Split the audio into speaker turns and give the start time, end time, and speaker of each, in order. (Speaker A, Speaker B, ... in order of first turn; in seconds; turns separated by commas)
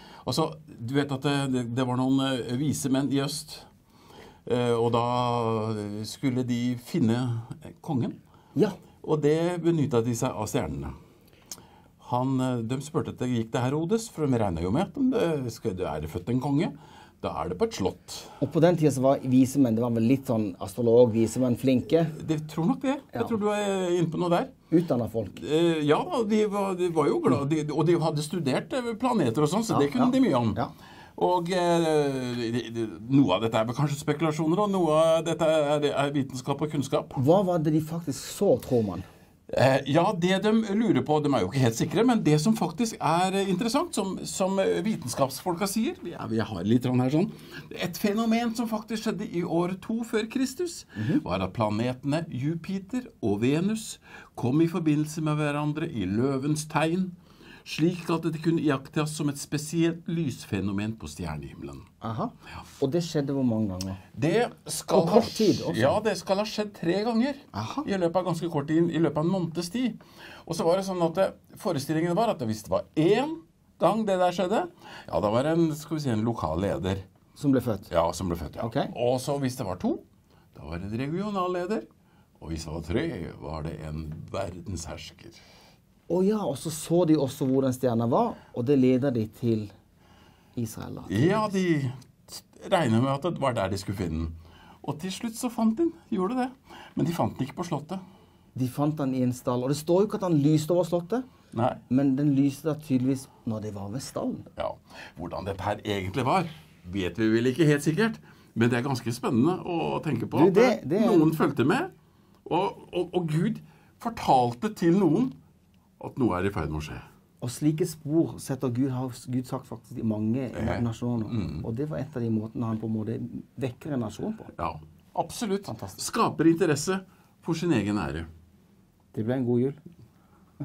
Speaker A: 0.2-3.7, Speaker A: 4.5-8.2, Speaker A: 9.0-10.9, Speaker A: 12.0-18.4, Speaker B: 18.4-22.2, Speaker A: 22.0-24.5, Speaker B: 24.7-25.4, Speaker A: 25.4-30.6, Speaker B: 29.7-30.7, Speaker A: 31.2-37.2, Speaker B: 37.2-39.1, Speaker A: 39.5-61.9, Speaker B: 51.0-51.2, Speaker B: 62.0-64.0, Speaker A: 64.2-77.0, Speaker B: 64.9-66.0, Speaker B: 67.5-67.9, Speaker B: 77.4-77.9, Speaker A: 77.9-80.0, Speaker B: 78.6-78.9, Speaker A: 80.5-81.9, Speaker A: 82.4-85.4, Speaker B: 86.1-89.7, Speaker B: 90.6-91.5, Speaker A: 91.1-98.0, Speaker B: 98.5-101.3, Speaker A: 101.5-101.8, Speaker B: 101.9-104.5, Speaker A: 104.6-111.9, Speaker B: 110.3-111.3, Speaker A: 112.5-115.4, Speaker A: 116.0-117.0, Speaker B: 117.4-124.5, Speaker A: 120.5-121.7, Speaker A: 124.5-128.3, Speaker B: 125.7-126.0, Speaker B: 129.1-129.8